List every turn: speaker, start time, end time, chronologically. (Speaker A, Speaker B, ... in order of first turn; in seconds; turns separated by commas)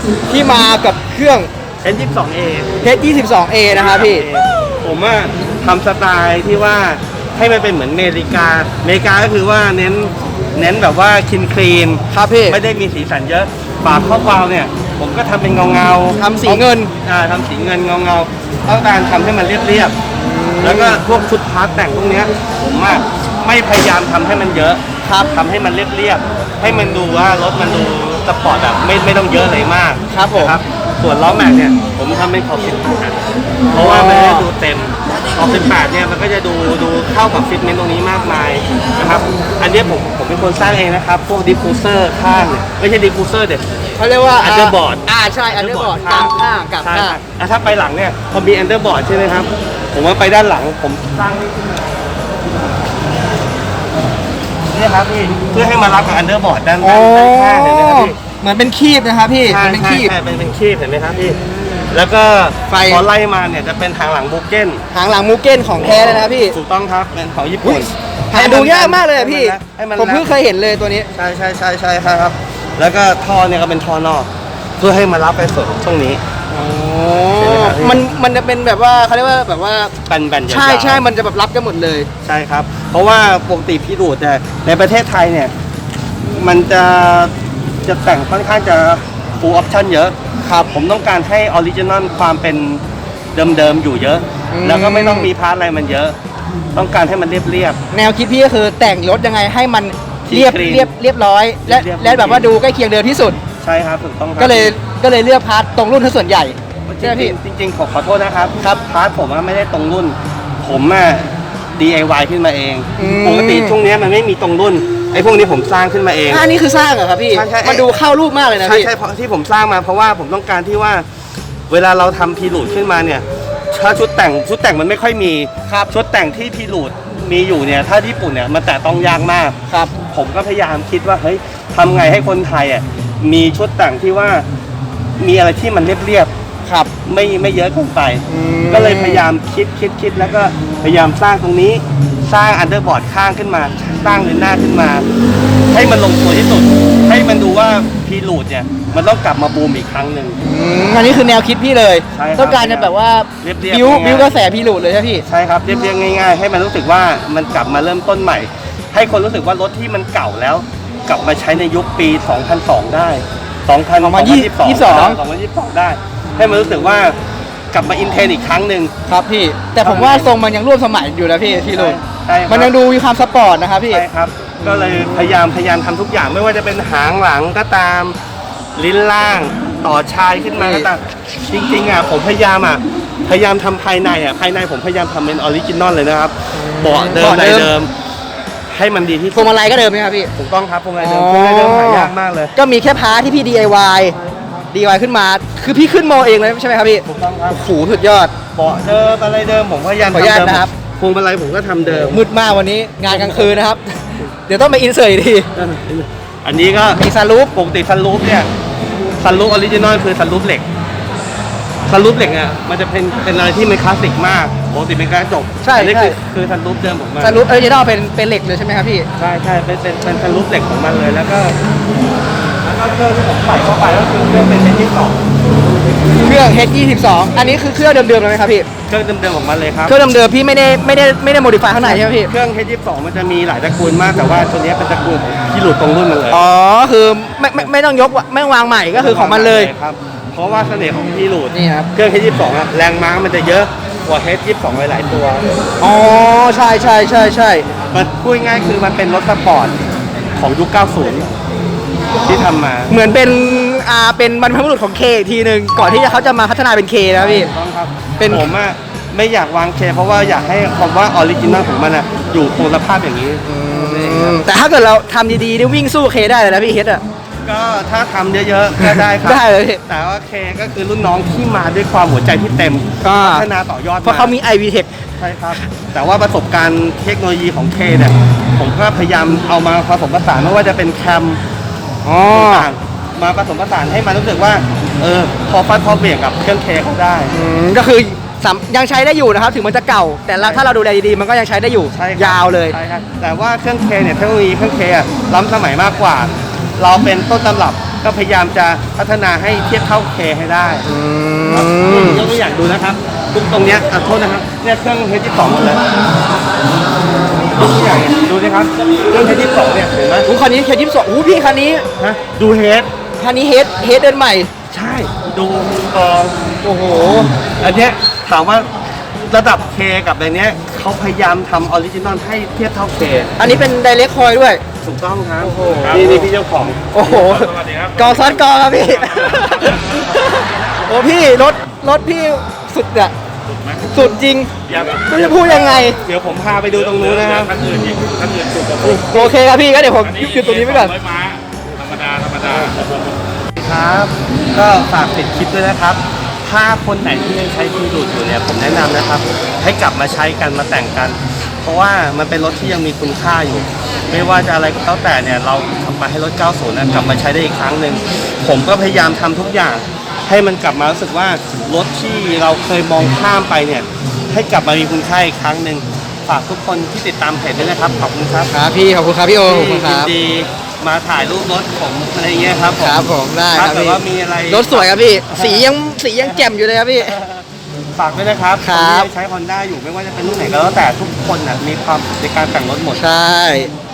Speaker A: 0.3-1.5, Speaker B: 1.8-2.7, Speaker A: 2.8-4.3, Speaker B: 3.7-19.9, Speaker A: 12.1-12.6, Speaker A: 16.1-16.9, Speaker A: 20.1-21.0, Speaker B: 20.6-43.6, Speaker A: 25.0-25.3, Speaker A: 30.1-30.6, Speaker A: 33.7-34.5, Speaker A: 44.0-47.2, Speaker B: 44.4-51.7, Speaker B: 54.7-58.1, Speaker A: 56.8-60.1, Speaker B: 59.4-61.4, Speaker B: 61.9-64.8, Speaker A: 62.7-63.0, Speaker A: 64.9-66.5, Speaker B: 65.8-70.3, Speaker A: 67.6-71.1, Speaker B: 71.1-76.2, Speaker A: 76.5-79.9, Speaker B: 77.3-78.1, Speaker B: 80.0-81.1, Speaker A: 80.5-82.1, Speaker B: 82.2-85.5, Speaker B: 86.3-87.3, Speaker B: 87.8-90.1, Speaker A: 90.4-90.7, Speaker B: 90.7-92.8, Speaker B: 93.3-96.2, Speaker A: 94.5-95.3, Speaker B: 96.7-97.8, Speaker A: 97.9-103.4, Speaker B: 100.3-100.9, Speaker B: 101.6-102.5, Speaker B: 103.6-104.7, Speaker A: 104.4-107.3, Speaker B: 106.9-116.4, Speaker A: 113.0-113.8, Speaker A: 116.3-118.9, Speaker B: 117.3-117.9, Speaker B: 118.6-121.0, Speaker B: 121.7-129.6, Speaker A: 129.7-129.9, Speaker B: 130.1-134.4, Speaker B: 135.2-136.3, Speaker A: 136.7-136.9, Speaker B: 137.0-145.0, Speaker A: 138.3-139.2, Speaker B: 145.7-150.4, Speaker A: 150.4-155.2, Speaker B: 152.1-154.3, Speaker B: 155.2-167.2, Speaker A: 164.0-165.2, Speaker B: 167.7-168.9, Speaker A: 169.1-174.0, Speaker B: 169.8-170.4, Speaker B: 171.7-172.7, Speaker B: 173.9-178.2, Speaker B: 178.8-187.9, Speaker A: 180.6-180.9, Speaker A: 186.5-187.7, Speaker B: 188.7-189.5, Speaker A: 189.3-190.3, Speaker B: 190.3-192.5, Speaker A: 191.0-194.2, Speaker A: 194.7-198.3, Speaker B: 197.1-197.6, Speaker B: 198.5-202.2, Speaker A: 200.1-200.7, Speaker A: 201.9-205.5, Speaker B: 203.1-203.6, Speaker B: 205.5-207.0, Speaker A: 206.9-207.5, Speaker B: 207.5-208.5, Speaker B: 209.2-210.7, Speaker B: 211.8-217.4, Speaker A: 215.6-216.2, Speaker A: 217.2-219.1, Speaker B: 219.2-221.6, Speaker B: 222.6-225.2, Speaker A: 226.2-228.7, Speaker B: 228.9-230.0, Speaker A: 229.8-232.3, Speaker B: 231.8-236.4, Speaker A: 236.3-239.7, Speaker B: 238.9-245.5, Speaker A: 241.5-241.9, Speaker A: 245.8-247.7, Speaker B: 247.9-249.8, Speaker B: 250.3-251.3, Speaker B: 252.2-252.9, Speaker A: 252.9-257.5, Speaker B: 257.1-264.4, Speaker A: 258.2-258.5, Speaker A: 263.4-267.0, Speaker B: 267.4-274.3, Speaker A: 268.8-269.8, Speaker A: 273.0-273.5, Speaker A: 274.0-274.9, Speaker B: 275.2-281.4, Speaker A: 282.0-282.7, Speaker B: 282.3-287.3, Speaker A: 287.3-292.8, Speaker B: 290.4-290.6, Speaker B: 291.9-300.9, Speaker A: 300.9-302.3, Speaker B: 301.5-305.8, Speaker B: 307.6-310.3, Speaker A: 310.2-311.9, Speaker B: 312.0-312.9, Speaker A: 313.2-314.5, Speaker B: 314.7-316.4, Speaker A: 316.6-317.3, Speaker B: 317.6-318.7, Speaker B: 319.3-323.3, Speaker A: 323.4-324.6, Speaker B: 324.8-327.0, Speaker A: 325.4-326.2, Speaker A: 326.9-333.1, Speaker C: 327.2-328.2, Speaker C: 328.9-330.0, Speaker A: 333.8-336.0, Speaker B: 334.7-337.6, Speaker C: 336.8-339.1, Speaker A: 338.8-340.9, Speaker C: 340.0-343.1, Speaker B: 343.6-368.5, Speaker A: 368.5-370.1, Speaker B: 369.4-373.0, Speaker A: 372.8-377.1, Speaker B: 373.5-375.7, Speaker B: 376.2-383.0, Speaker A: 378.6-379.1, Speaker A: 382.9-383.7